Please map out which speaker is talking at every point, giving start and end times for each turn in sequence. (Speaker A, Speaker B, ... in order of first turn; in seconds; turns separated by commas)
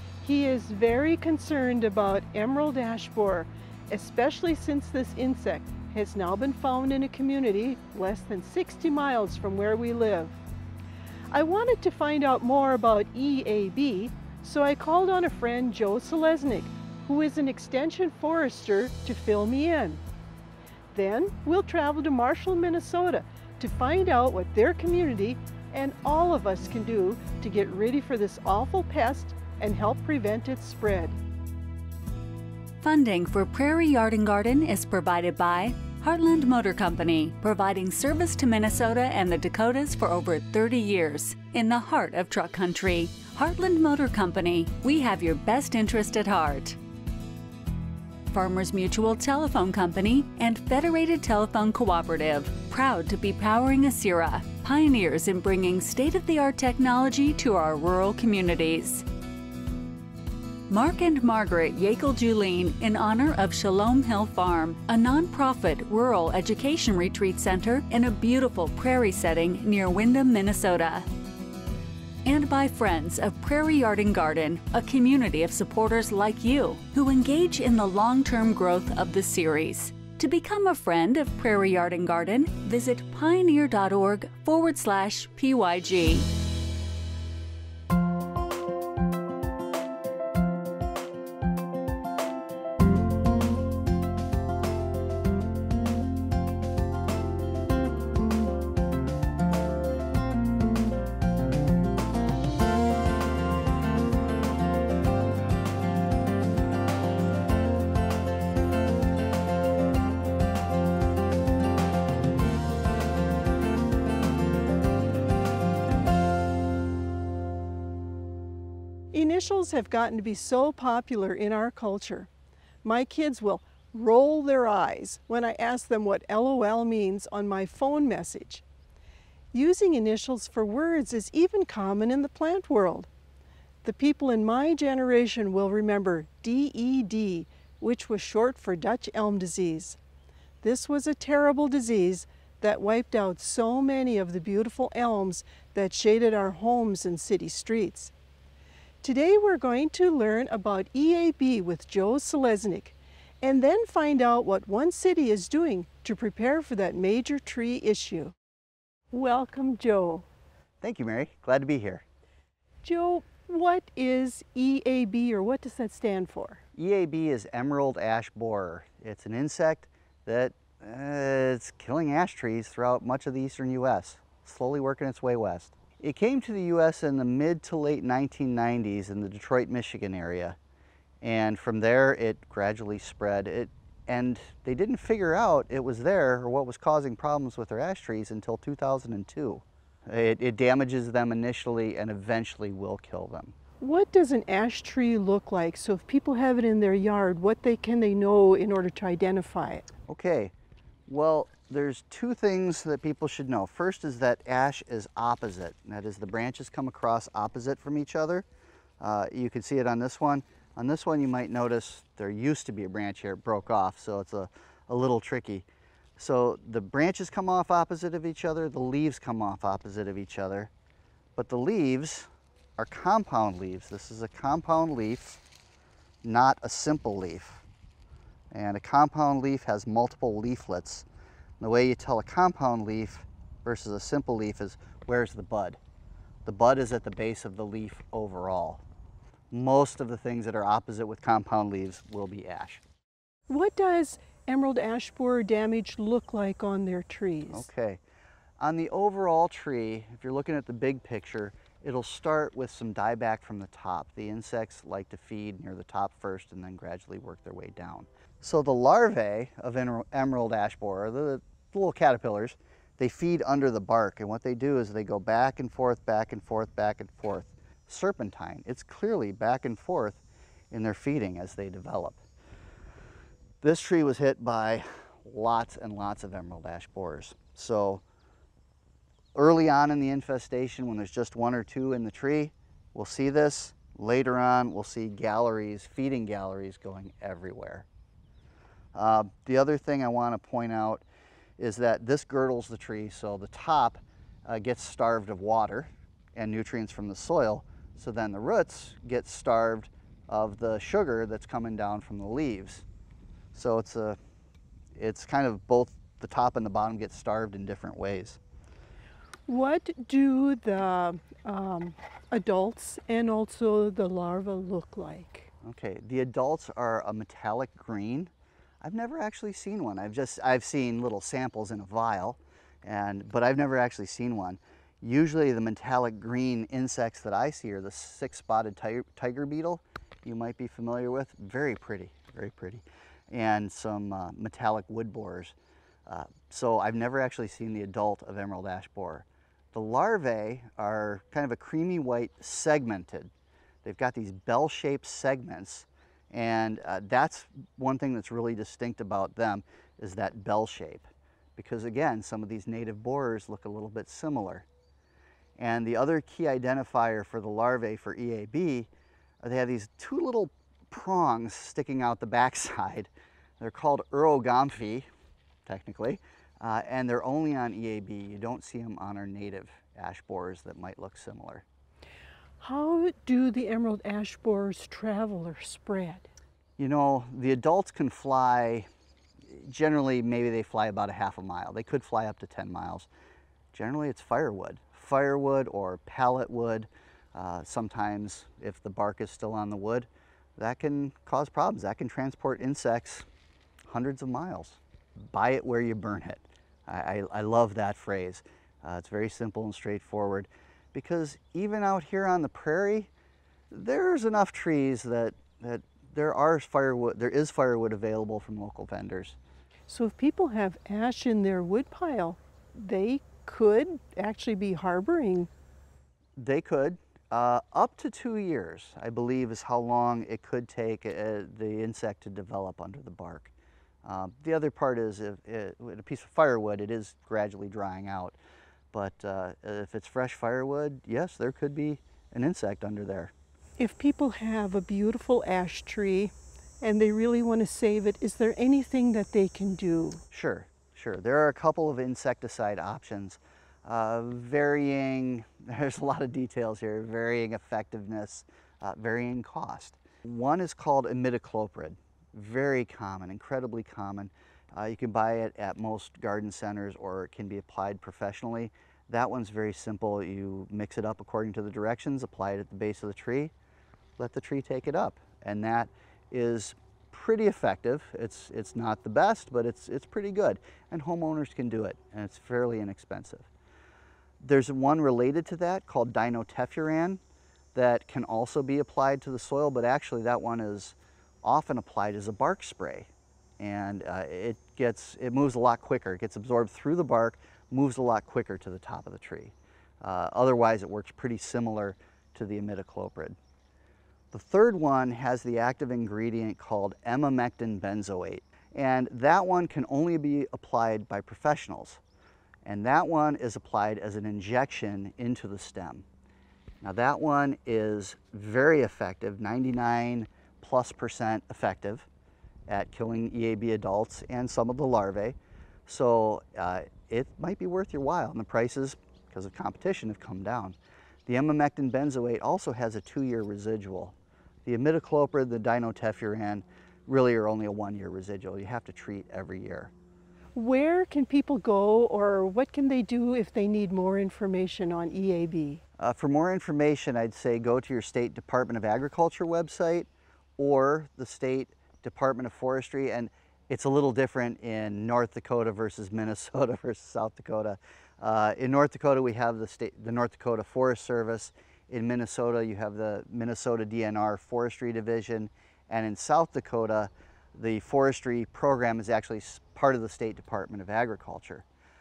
Speaker A: 0.2-10.4, Speaker A: 11.3-20.0, Speaker A: 20.9-31.2, Speaker B: 32.8-46.8, Speaker B: 48.3-59.0, Speaker B: 60.7-71.1, Speaker B: 72.2-86.3, Speaker A: 119.1-122.3, Speaker A: 122.8-128.6, Speaker A: 129.5-133.1, Speaker A: 133.8-140.0, Speaker A: 140.6-148.1, Speaker A: 149.0-158.3, Speaker A: 159.1-160.3, Speaker C: 160.8-162.0, Speaker A: 162.8-166.6, Speaker C: 166.8-180.6, Speaker C: 181.2-193.5, Speaker A: 193.8-199.9, Speaker C: 200.1-200.5, Speaker C: 201.1-208.5, Speaker C: 209.0-220.7, Speaker C: 221.4-225.4, Speaker C: 226.2-227.7, Speaker C: 228.5-231.1, Speaker C: 231.6-235.8, Speaker C: 236.4-238.8, Speaker C: 239.5-242.8, Speaker A: 243.5-247.7, Speaker C: 247.5-248.0, Speaker C: 248.6-270.2, Speaker C: 270.7-272.2, Speaker C: 273.6-278.0, Speaker C: 279.3-287.9, Speaker C: 288.9-291.0, Speaker C: 291.6-302.8, Speaker C: 303.5-304.2, Speaker C: 304.9-308.4, Speaker A: 309.5-315.5, Speaker C: 315.6-318.3, Speaker C: 318.8-335.5, Speaker C: 336.1-343.3, Speaker C: 343.8-354.6, Speaker C: 355.6-358.9, Speaker C: 359.4-365.1, Speaker C: 365.6-371.6, Speaker A: 372.6-376.3, Speaker C: 376.8-378.9, Speaker C: 379.5-383.1, Speaker C: 383.7-393.3, Speaker C: 393.9-403.1, Speaker C: 403.7-409.4, Speaker A: 409.9-415.5, Speaker C: 416.4-423.5, Speaker C: 424.0-428.4, Speaker C: 428.9-433.3, Speaker A: 433.8-440.2, Speaker C: 440.3-463.5, Speaker C: 464.2-473.5, Speaker C: 474.4-477.2, Speaker C: 477.7-493.4, Speaker C: 494.3-502.0, Speaker C: 502.6-506.0, Speaker C: 506.8-512.1, Speaker C: 512.7-529.9, Speaker A: 530.5-535.8, Speaker C: 536.0-561.6